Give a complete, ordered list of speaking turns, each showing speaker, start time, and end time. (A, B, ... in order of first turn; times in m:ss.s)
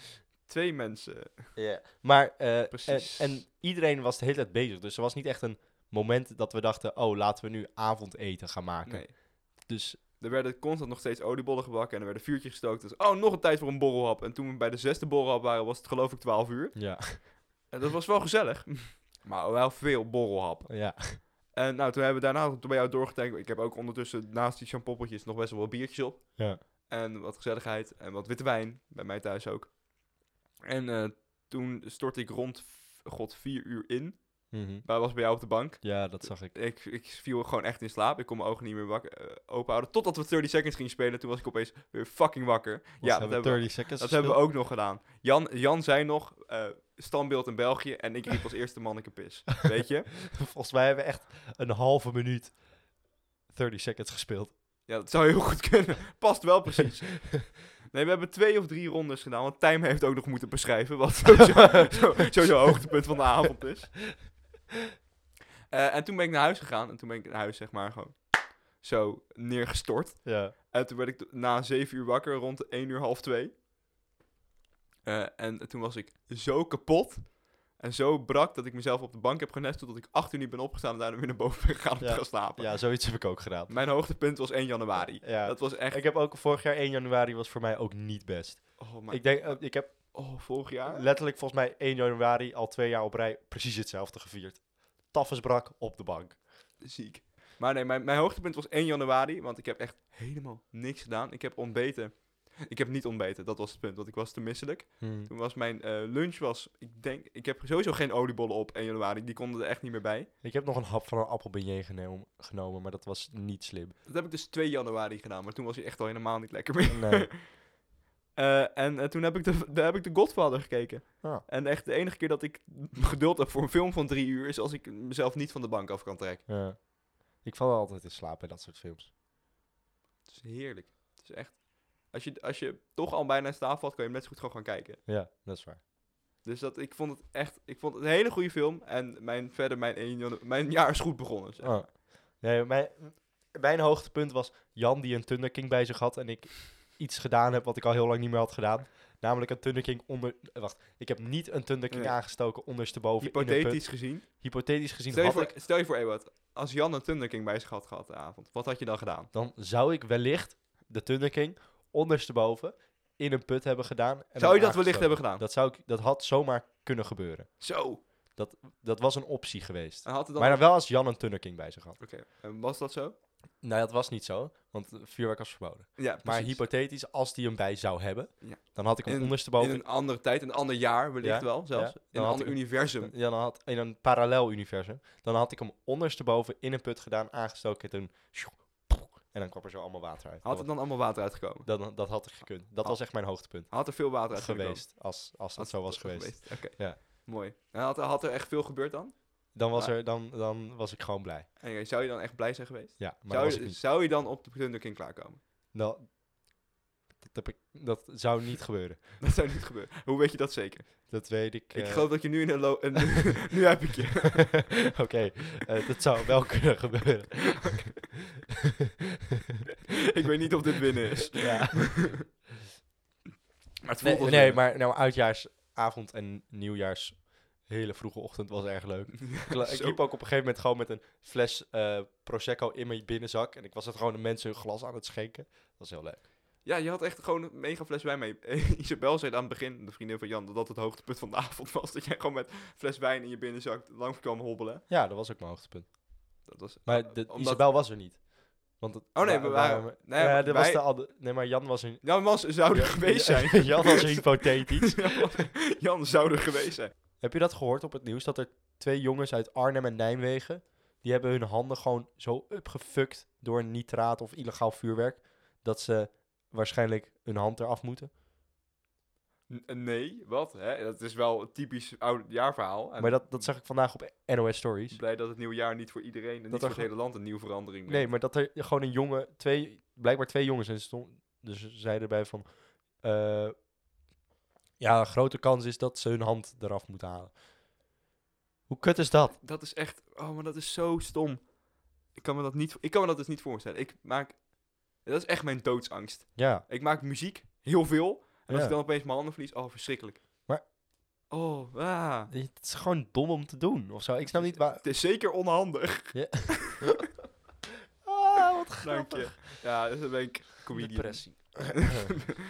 0:00.4-0:01.9 A
0:01.5-0:10.0 B
0:02.7-0:03.4 A
0:08.8-0:50.3 A
0:16.7-0:17.2 B
0:20.7-0:21.2 B
0:34.5-0:36.5 B
0:43.0-0:44.4 B
0:50.3-0:54.6 B
0:54.8-1:04.1 A
1:05.7-1:13.5 A
1:10.2-1:10.5 B
1:15.0-1:26.0 A
1:22.0-1:23.8 B
1:25.0-1:36.4 B
1:28.8-1:31.0 A
1:36.8-1:50.3 A
1:45.0-1:45.3 B
1:50.4-1:54.0 B
1:54.0-1:57.8 A
1:56.9-1:57.3 B
1:58.3-2:06.5 A
2:06.5-2:09.1 B
2:10.3-2:15.0 A
2:15.1-2:15.8 B
2:16.4-2:21.8 A
2:21.6-2:35.5 B
2:31.9-2:32.2 A
2:33.2-2:39.3 A
2:39.3-2:52.0 B
2:44.4-2:45.4 A
2:47.6-2:48.0 A
2:50.0-2:50.6 A
2:52.0-2:53.2 A
2:53.6-2:59.8 B
2:56.0-2:56.6 A
2:58.4-3:03.1 A
3:01.2-3:17.0 B
3:10.4-3:12.3 A
3:12.8-3:20.0 A
3:19.5-3:21.5 B
3:21.6-3:25.4 A
3:23.0-3:23.8 B
3:25.7-3:26.6 B
3:27.2-3:29.2 B
3:29.2-3:34.7 A
3:31.1-3:32.8 B
3:34.9-3:38.0 B
3:40.1-3:42.1 A
3:41.3-3:42.3 B
3:43.8-3:44.7 A
3:44.0-3:56.2 B
3:49.3-3:50.0 A
3:56.6-4:04.8 A
4:04.9-4:15.3 B
4:06.4-4:07.9 A
4:09.1-4:10.8 A
4:12.0-4:16.9 A
4:17.2-4:28.1 B
4:29.5-4:33.5 A
4:33.0-4:35.0 B
4:34.9-4:38.1 A
4:36.5-4:37.1 B
4:37.8-4:43.7 B
4:44.8-4:47.4 B
4:48.7-4:49.4 B
4:49.4-5:00.5 A
4:56.3-4:56.6 B
4:58.5-4:58.8 B
5:01.3-5:02.3 A
5:02.3-5:04.8 B
5:04.3-5:06.8 A
5:06.1-5:07.0 B
5:08.0-5:09.5 B
5:08.8-5:12.1 A
5:10.7-5:12.0 B